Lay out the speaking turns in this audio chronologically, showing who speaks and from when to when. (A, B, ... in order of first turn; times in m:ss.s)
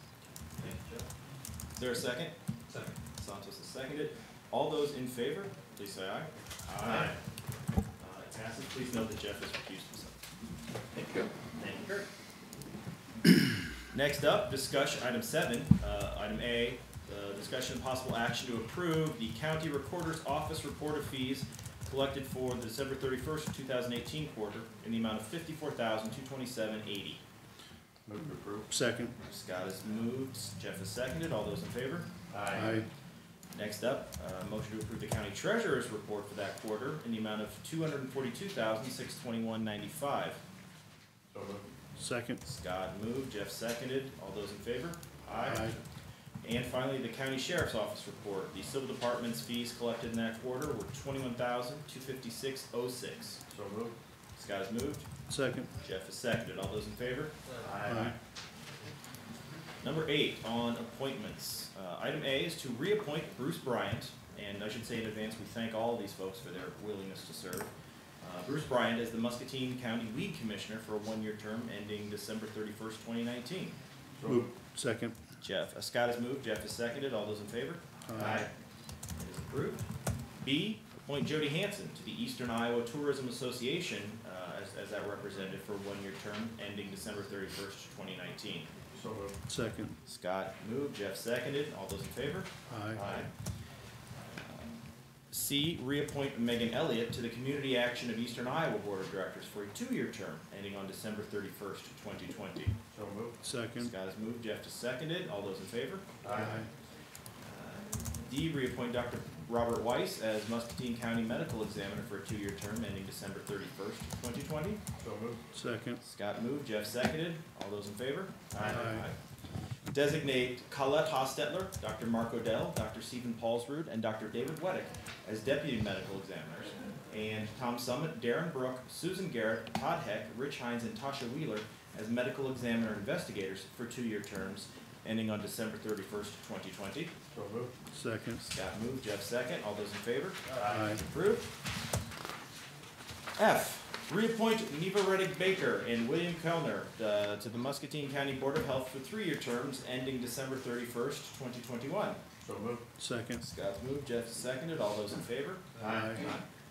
0:00.6-0:01.1 A
0:01.8-0:07.2 A
0:06.9-0:07.1 B
0:08.0-0:10.2 A
0:11.6-0:12.0 A
0:13.9-0:27.2 A
0:28.1-0:28.7 B
0:28.7-0:29.2 C
0:29.2-0:32.1 A
0:32.3-0:32.8 B
0:32.5-0:32.9 C
0:33.5-0:40.4 A
0:41.3-0:41.6 B
0:42.0-0:42.4 C
0:42.4-0:45.8 A
0:45.4-0:45.8 C
0:46.4-0:53.4 A
0:53.5-0:54.0 B
0:54.4-0:55.1 A
0:55.3-0:55.7 C
0:55.8-0:57.4 A
0:57.6-0:58.2 B
0:57.8-0:58.2 C
0:59.8-1:07.7 A
1:08.2-1:13.8 A
1:14.2-1:14.5 B
1:14.2-1:15.2 C
1:15.4-1:17.8 A
1:18.1-1:18.5 C
1:18.2-1:18.5 B
1:19.2-1:19.9 A
1:20.4-1:28.7 A
1:28.9-1:29.4 B
1:29.5-1:30.0 C
1:30.1-1:33.3 A
1:32.7-1:33.0 C
1:32.9-1:33.3 B
1:34.3-1:34.8 A
1:35.3-1:42.8 A
1:42.9-1:43.4 B
1:43.4-1:43.9 C
1:43.8-1:46.3 A
1:46.2-1:46.6 B
1:46.4-1:46.7 C
1:47.4-1:54.8 A
1:55.0-1:55.4 B
1:55.5-1:56.0 C
1:56.0-1:59.2 A
1:58.5-1:58.8 B
1:58.6-1:59.0 C
1:59.9-2:17.1 A
2:17.3-2:17.7 B
2:17.9-2:18.4 C
2:18.4-2:21.5 A
2:20.6-2:20.9 B
2:20.7-2:21.0 C
2:23.4-2:32.2 A
2:32.4-2:32.8 B
2:33.0-2:33.4 C
2:33.4-2:36.4 A
2:35.8-2:36.4 B
2:35.8-2:36.2 C